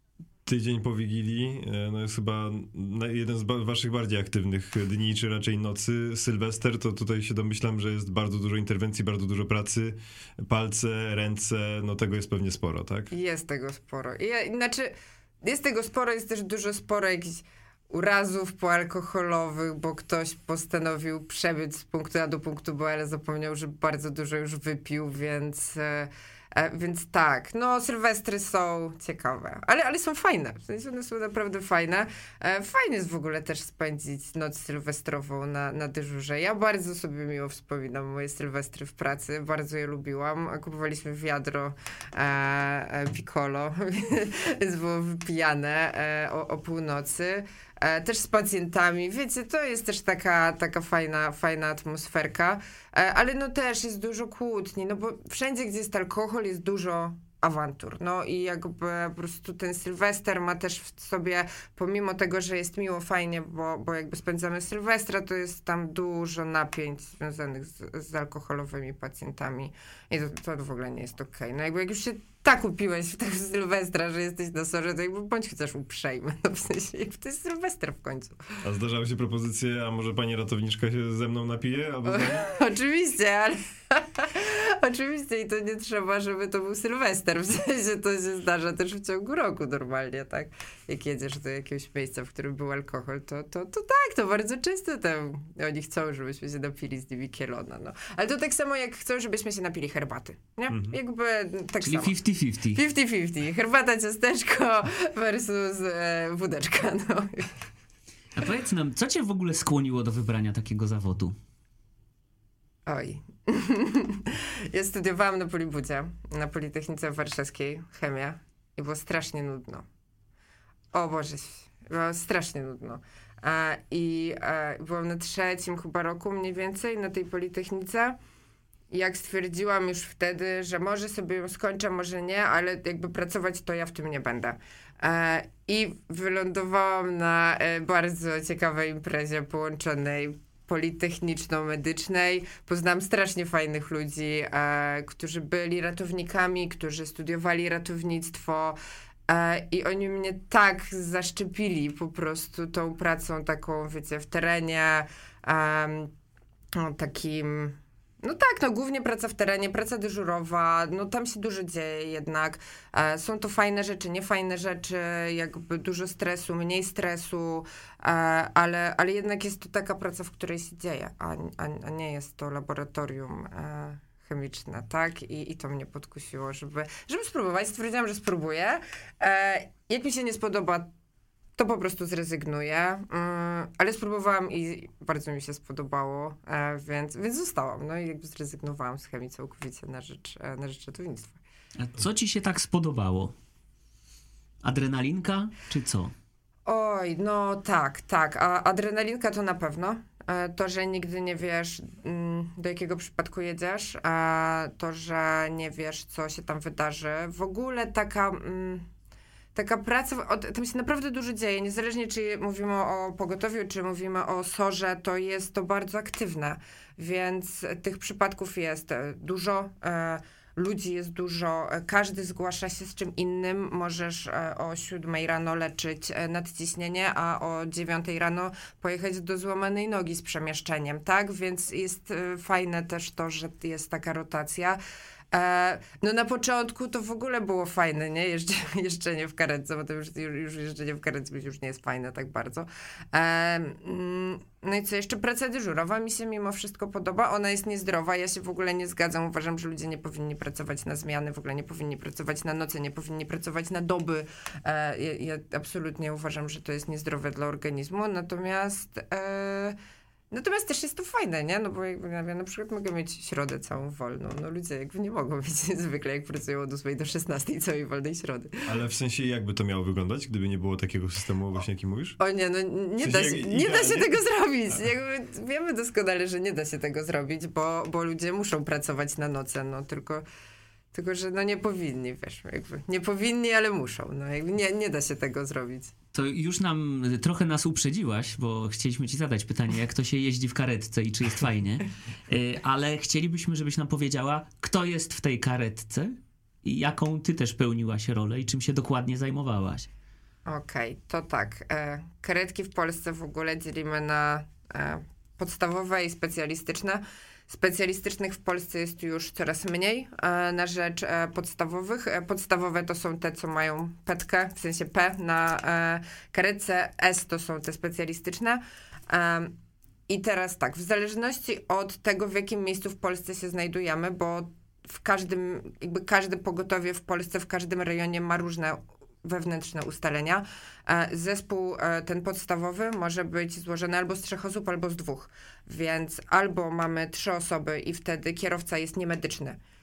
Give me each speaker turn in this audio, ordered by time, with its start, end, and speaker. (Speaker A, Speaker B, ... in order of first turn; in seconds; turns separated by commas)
Speaker A: 0.5-13.1, Speaker B: 13.1-78.6, Speaker A: 78.6-82.5, Speaker B: 82.1-102.1, Speaker A: 100.7-101.0, Speaker C: 101.8-102.8, Speaker B: 102.7-107.5, Speaker C: 108.3-111.3, Speaker B: 112.9-119.9, Speaker B: 120.9-128.2, Speaker B: 128.9-148.8, Speaker B: 149.3-156.1, Speaker B: 156.8-180.9, Speaker B: 181.6-191.4, Speaker C: 191.8-193.3, Speaker C: 194.6-196.1, Speaker B: 196.7-208.9, Speaker B: 209.6-234.8, Speaker B: 235.3-259.8, Speaker B: 260.3-268.7, Speaker A: 268.7-272.2, Speaker B: 272.2-280.2, Speaker A: 273.0-274.2, Speaker B: 280.9-285.9, Speaker C: 286.1-299.9, Speaker B: 300.5-319.6, Speaker B: 320.1-339.6